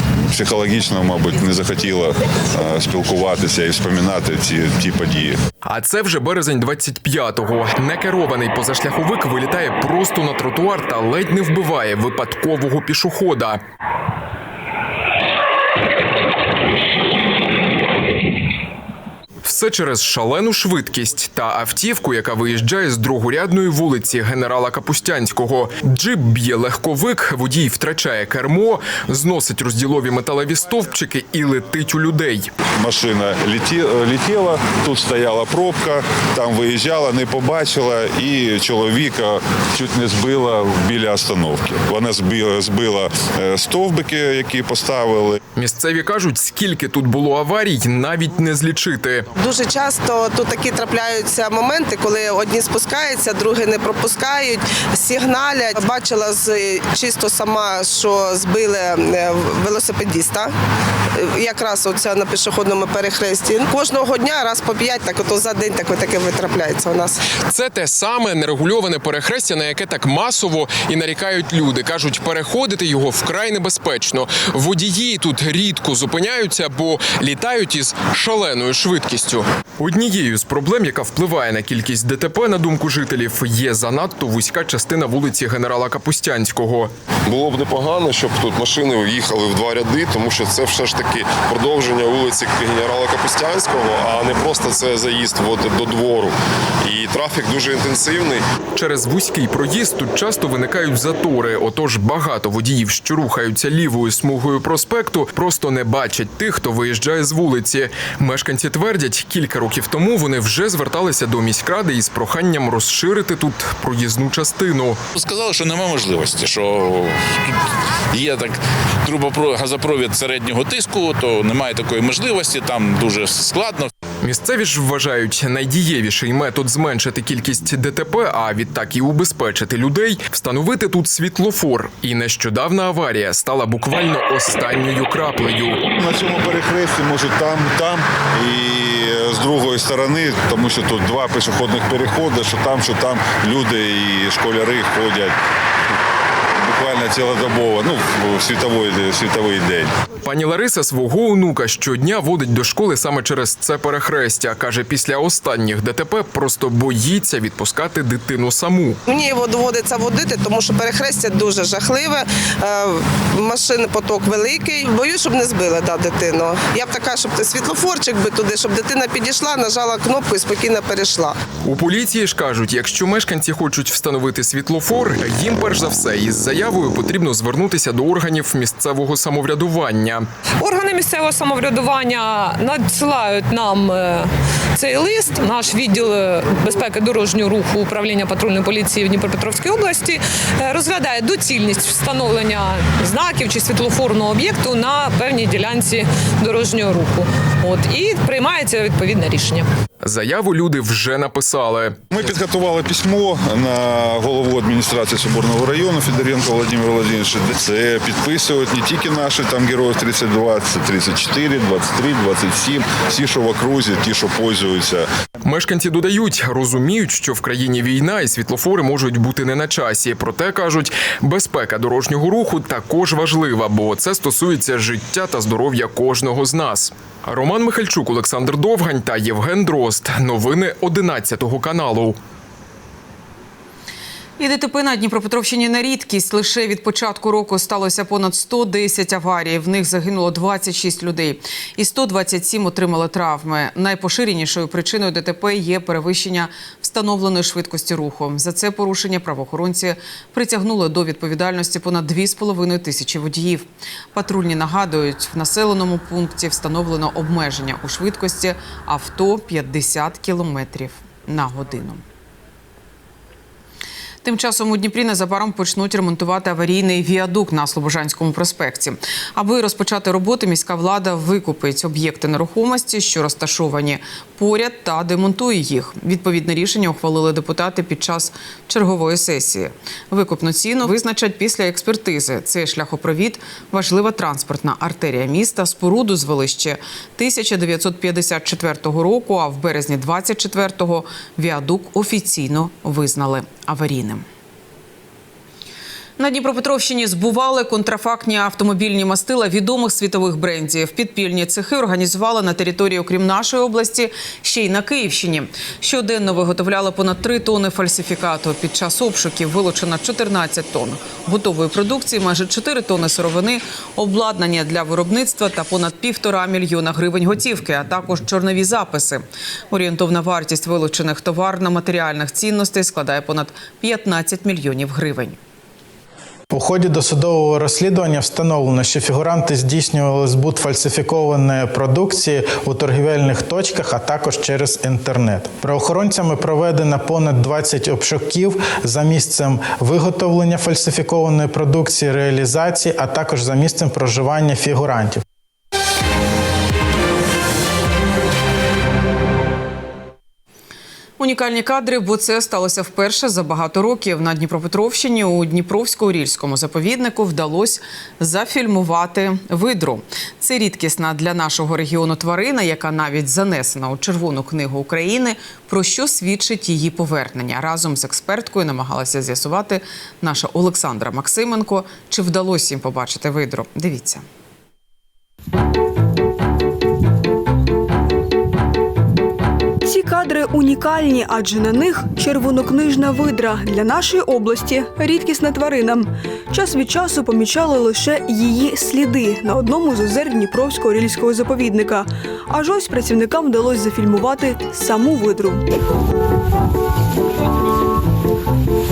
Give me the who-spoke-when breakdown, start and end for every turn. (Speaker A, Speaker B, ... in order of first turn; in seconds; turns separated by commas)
Speaker A: 0.3-5.4, Speaker B: 5.6-13.6, Speaker B: 19.4-32.5, Speaker A: 32.8-45.4, Speaker B: 45.5-49.2, Speaker C: 49.4-60.5, Speaker C: 61.2-67.2, Speaker B: 67.5-86.9, Speaker D: 87.2-98.4, Speaker B: 98.7-115.0, Speaker E: 115.1-117.6, Speaker E: 118.1-123.9, Speaker B: 124.2-135.8, Speaker A: 136.0-145.3, Speaker A: 146.6-149.9, Speaker B: 150.2-159.0, Speaker C: 159.1-171.4, Speaker B: 171.6-180.3, Speaker F: 180.6-199.7, Speaker B: 200.0-202.0, Speaker A: 202.1-215.1, Speaker B: 215.4-232.2, Speaker G: 234.4-262.0, Speaker G: 264.2-294.2, Speaker G: 296.2-325.4, Speaker H: 326.5-345.2, Speaker G: 351.2-374.2, Speaker I: 379.8-395.6